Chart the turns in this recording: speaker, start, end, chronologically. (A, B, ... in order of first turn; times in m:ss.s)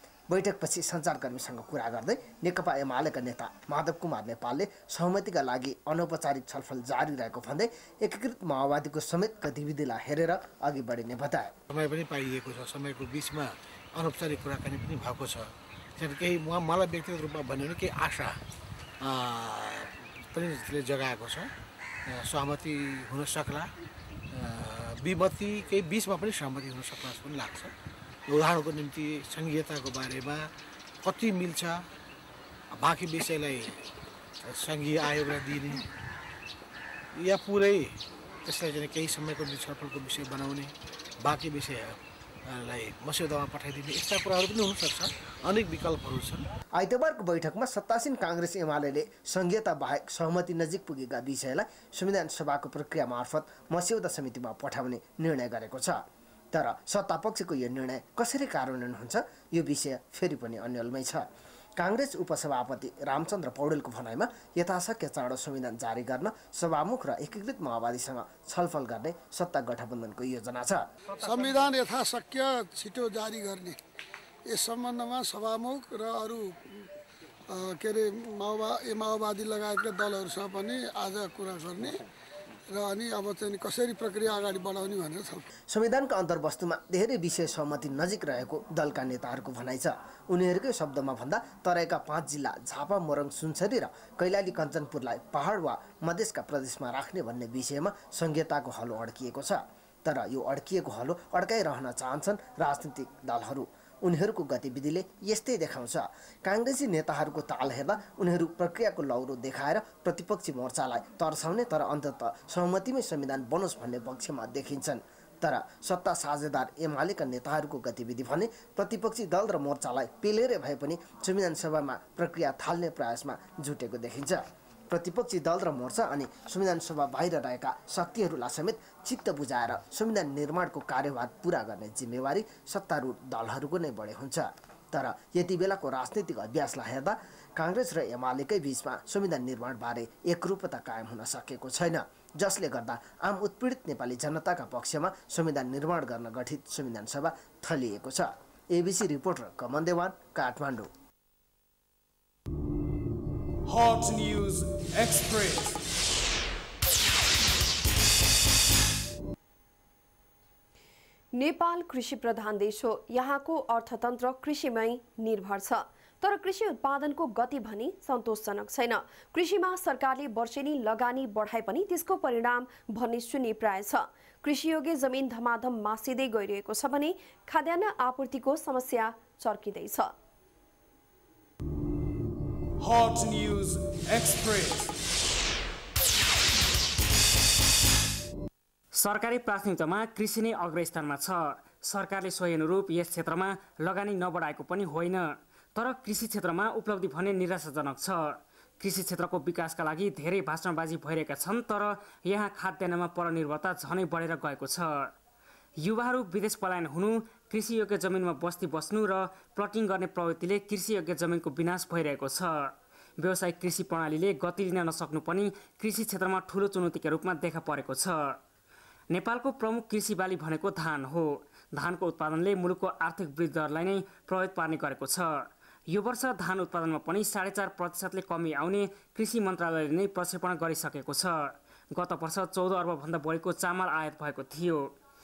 0:00.3-0:11.5 A
0:11.7-0:18.4 B
0:19.0-0:21.5 B
0:22.1-0:23.7 B
0:24.3-0:27.7 B
0:28.3-0:30.5 B
0:31.0-0:31.8 B
0:32.7-0:33.8 B
0:34.4-0:35.8 B
0:37.2-0:37.9 B
0:38.4-0:46.4 B
0:46.8-0:56.0 A
0:56.5-1:01.2 A
1:01.8-1:10.8 A
1:11.1-1:13.8 C
1:14.5-1:16.9 C
1:17.5-1:22.0 C
1:22.7-1:25.5 C
1:25.7-2:30.9 A
2:33.6-2:35.8 D
2:41.3-3:00.1 E
3:02.8-3:05.0 D
3:08.9-3:25.1 F
3:25.8-3:38.4 F
3:39.1-3:54.9 F